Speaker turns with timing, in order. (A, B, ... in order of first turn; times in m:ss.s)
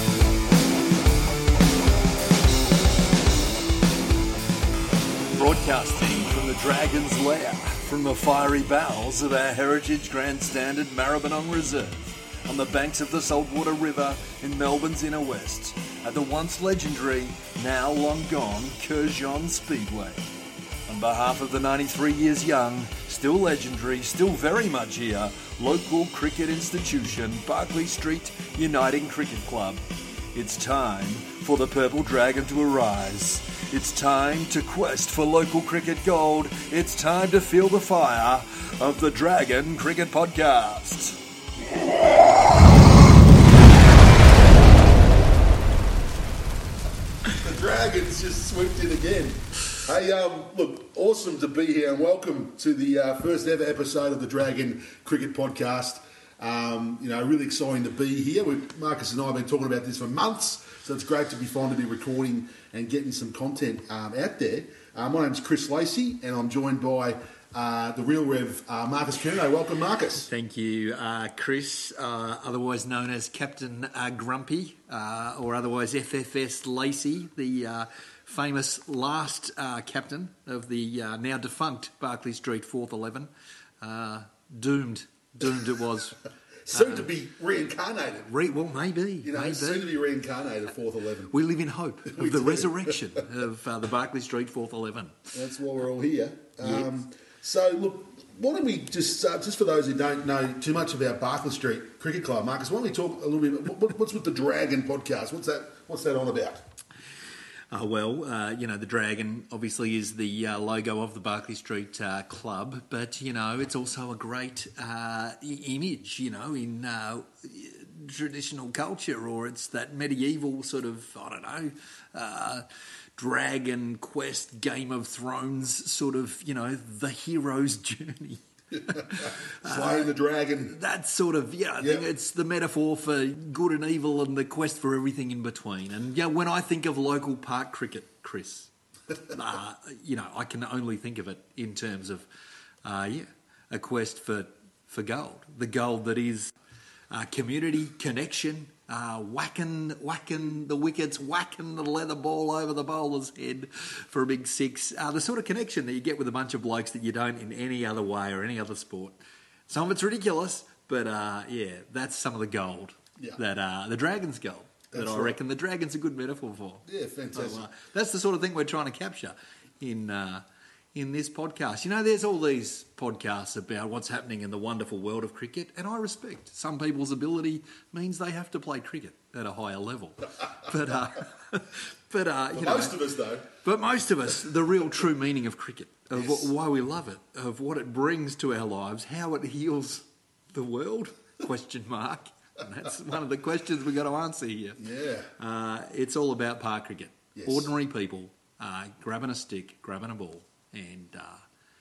0:05.3-0:20.2 A
0:20.9-0:29.8 A
0:30.3-0:41.2 A
0:47.4-1:10.3 B
1:10.2-1:23.3 A
1:23.8-1:27.1 A
1:26.6-1:28.3 B
1:28.3-1:29.9 A
1:29.2-1:31.3 B
1:31.3-1:35.2 A
1:32.1-1:32.9 B
1:35.3-1:46.6 B
1:36.6-1:36.9 A
1:47.7-2:02.6 A
2:03.2-2:10.1 A
2:08.9-2:10.8 B
2:10.7-2:18.7 A
2:11.8-2:12.0 B
2:19.3-2:22.2 A
2:22.8-2:26.5 A
2:27.1-2:39.2 A
2:39.7-3:03.0 A
2:44.9-2:45.4 B
2:46.9-2:47.7 B
3:02.5-3:03.5 B
3:03.6-3:14.8 A
3:06.1-3:06.5 B
3:14.8-3:15.3 B
3:15.4-3:21.4 A
3:17.3-3:17.7 B